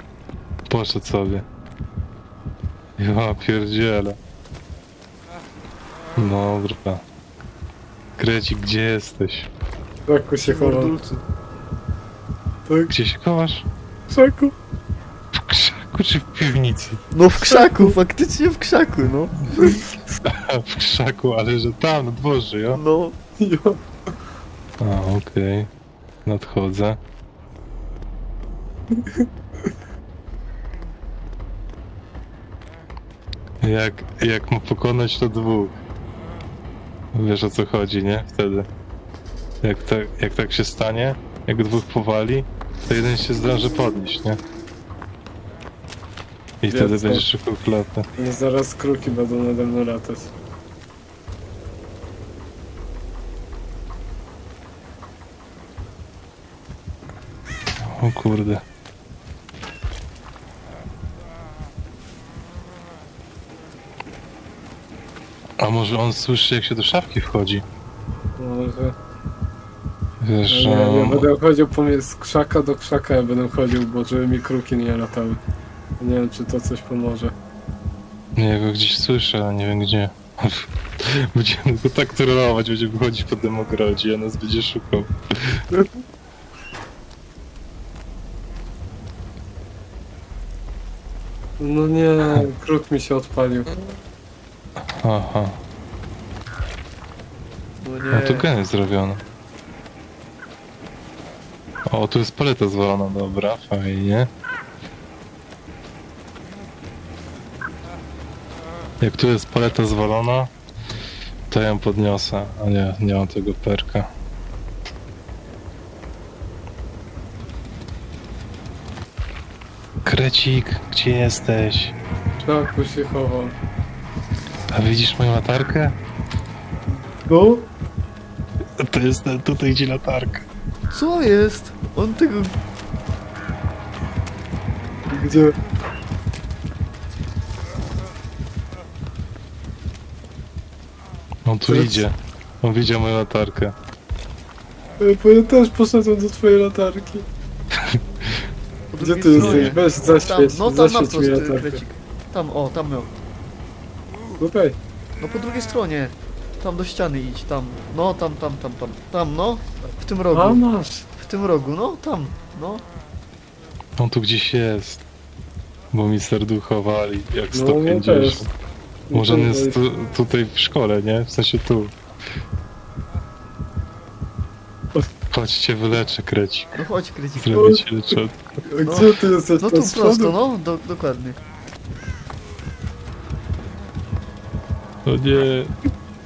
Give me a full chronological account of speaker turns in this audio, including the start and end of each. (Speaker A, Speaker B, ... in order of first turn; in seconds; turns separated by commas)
Speaker A: 0.7-1.4, Speaker A: 3.0-4.2, Speaker A: 6.2-7.0, Speaker A: 8.2-9.5, Speaker B: 10.1-10.9, Speaker C: 10.4-11.2, Speaker B: 12.7-12.9, Speaker A: 12.9-13.7, Speaker B: 14.1-14.5, Speaker A: 15.3-17.0, Speaker C: 17.1-19.8, Speaker B: 17.4-17.9, Speaker A: 20.2-22.8, Speaker C: 22.7-23.2, Speaker B: 23.4-23.8, Speaker A: 24.8-25.7, Speaker A: 26.2-27.0, Speaker A: 33.6-35.8, Speaker A: 37.1-38.7, Speaker A: 39.6-44.4, Speaker A: 46.6-48.0, Speaker B: 46.7-47.2, Speaker B: 48.2-50.3, Speaker A: 57.8-58.6, Speaker A: 65.6-67.6, Speaker B: 68.4-69.0, Speaker A: 70.2-71.3, Speaker B: 70.5-75.4, Speaker B: 76.0-77.3, Speaker A: 78.3-85.6, Speaker B: 91.6-93.7, Speaker A: 94.8-95.6, Speaker C: 97.8-98.5, Speaker A: 98.1-99.2, Speaker A: 101.9-104.3, Speaker A: 109.0-110.5, Speaker A: 111.5-114.1, Speaker A: 120.0-121.9, Speaker B: 122.4-123.5, Speaker A: 124.7-125.9, Speaker B: 127.2-127.7, Speaker A: 128.8-130.5, Speaker C: 130.9-132.6, Speaker B: 135.1-135.5, Speaker A: 141.4-143.7, Speaker B: 141.7-142.0, Speaker B: 145.0-147.2, Speaker A: 147.8-148.4, Speaker C: 148.9-153.1, Speaker B: 149.0-151.8, Speaker A: 149.4-149.8, Speaker B: 154.4-154.8, Speaker C: 155.2-160.6, Speaker B: 160.3-161.1, Speaker C: 161.2-162.8, Speaker A: 164.0-165.0, Speaker A: 165.9-168.5, Speaker B: 167.5-168.4, Speaker B: 169.1-169.8, Speaker A: 169.1-171.9, Speaker A: 175.3-176.8, Speaker C: 176.7-177.6, Speaker A: 177.4-178.3, Speaker B: 177.5-177.8, Speaker B: 178.7-180.3, Speaker C: 178.8-181.4, Speaker A: 185.1-185.7